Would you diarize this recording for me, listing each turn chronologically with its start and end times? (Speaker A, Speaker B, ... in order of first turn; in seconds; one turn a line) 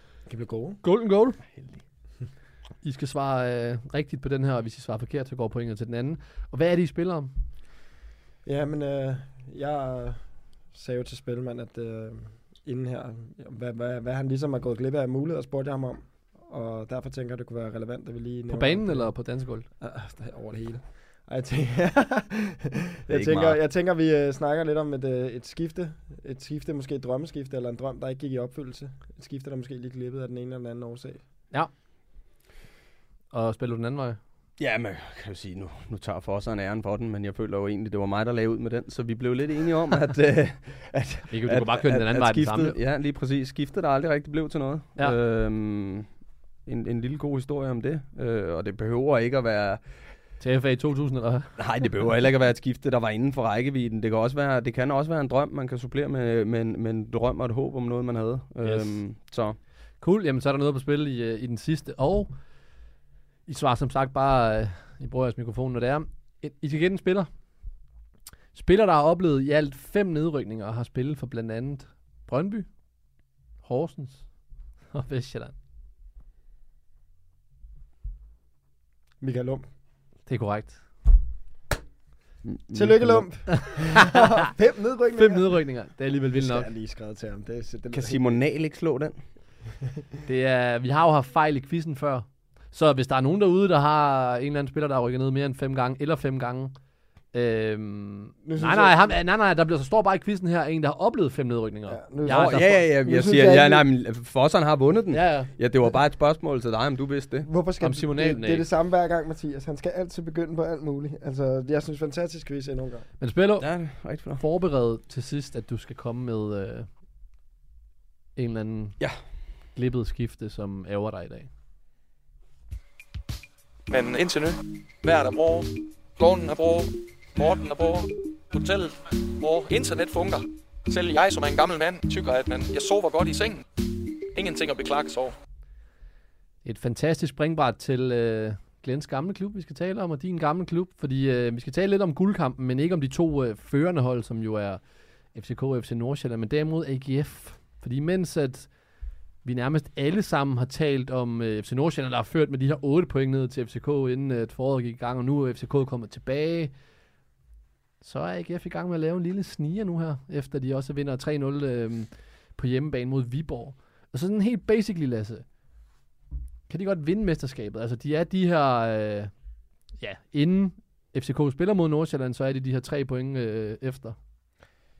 Speaker A: 0.2-0.8
Speaker B: 0.8-1.4
Speaker C: 1.5-1.8
Speaker B: 2.8-7.3
Speaker A: 8.4-31.2
Speaker B: 18.5-19.7
Speaker C: 23.1-23.6
Speaker B: 33.3-34.2
Speaker C: 34.6-50.2
Speaker B: 41.3-42.8
Speaker B: 50.4-51.5
Speaker C: 51.5-59.6
Speaker B: 58.6-59.2
Speaker B: 60.0-62.7
Speaker B: 63.5-67.8
Speaker B: 68.5-75.5
Speaker A: 79.2-79.7
Speaker B: 80.2-81.1
Speaker C: 82.4-83.6
Speaker A: 82.7-85.7
Speaker B: 83.6-83.9
Speaker B: 85.2-86.7
Speaker A: 86.3-88.4
Speaker C: 87.9-89.3
Speaker B: 90.2-96.8
Speaker B: 97.3-102.8
Speaker A: 98.4-99.2
Speaker A: 101.9-103.8
Speaker C: 102.3-107.5
Speaker B: 105.1-105.5
Speaker A: 107.4-113.1
Speaker B: 107.8-108.6
Speaker B: 113.2-116.9
Speaker C: 113.6-114.4
Speaker B: 118.3-121.5
Speaker C: 119.0-119.2
Speaker D: 123.9-133.6
Speaker D: 134.3-135.3
Speaker B: 136.6-148.8
Speaker B: 149.4-156.8
Speaker B: 158.0-165.6
Speaker B: 166.7-174.1